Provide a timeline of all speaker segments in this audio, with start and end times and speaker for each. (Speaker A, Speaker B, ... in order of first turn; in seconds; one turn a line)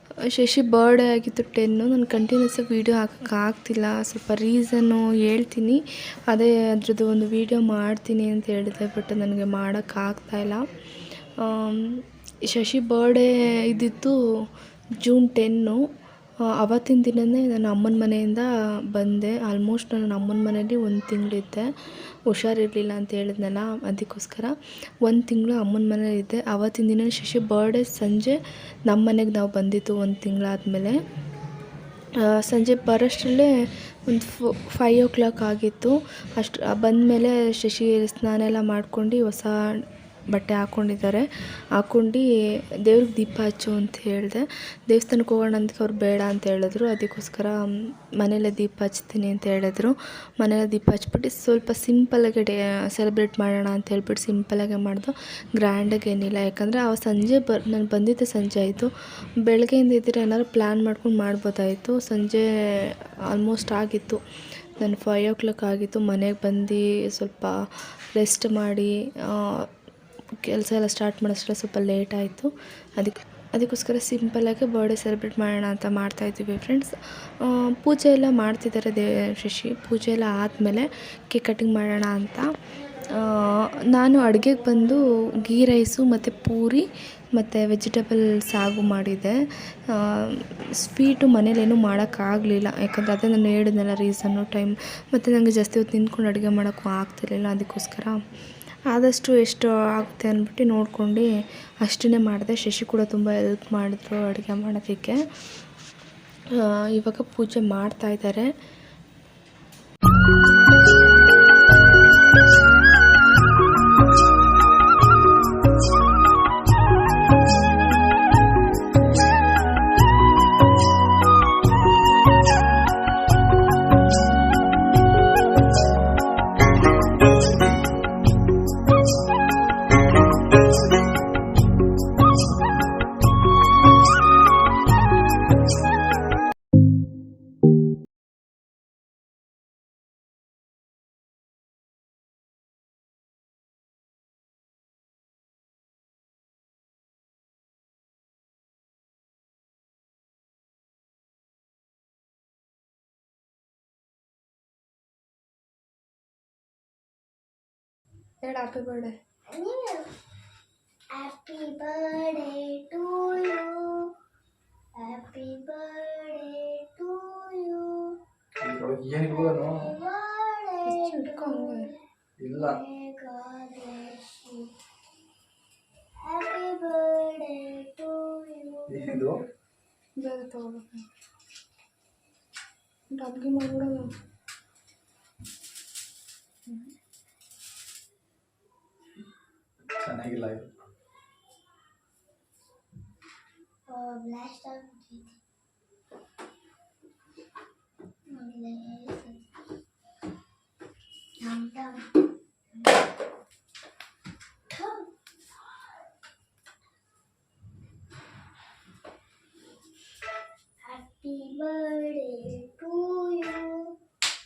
Speaker A: 0.2-10.6
Speaker A: 11.4-14.5
Speaker A: 15.0-15.8
Speaker A: 16.6-21.7
Speaker A: 22.3-31.0
Speaker A: 32.2-33.5
Speaker A: 34.0-42.2
Speaker A: 42.8-64.2
Speaker A: 64.8-69.7
Speaker A: 70.4-82.5
Speaker A: 83.1-98.2
Speaker A: 98.9-101.3
Speaker A: 101.8-105.2
Speaker A: 106.5-108.5
Speaker A: 158.4-159.1
Speaker B: 159.5-160.1
Speaker B: 161.1-164.1
Speaker B: 165.0-168.2
Speaker C: 168.6-169.9
Speaker B: 169.3-172.0
Speaker A: 170.8-171.9
Speaker C: 172.4-172.8
Speaker B: 172.5-174.7
Speaker B: 176.2-179.2
Speaker C: 178.9-179.4
Speaker A: 180.2-181.0
Speaker A: 183.1-184.1
Speaker C: 189.9-190.7
Speaker B: 193.9-195.4
Speaker B: 198.3-199.5
Speaker B: 201.4-202.2
Speaker B: 204.7-205.1
Speaker B: 210.8-214.0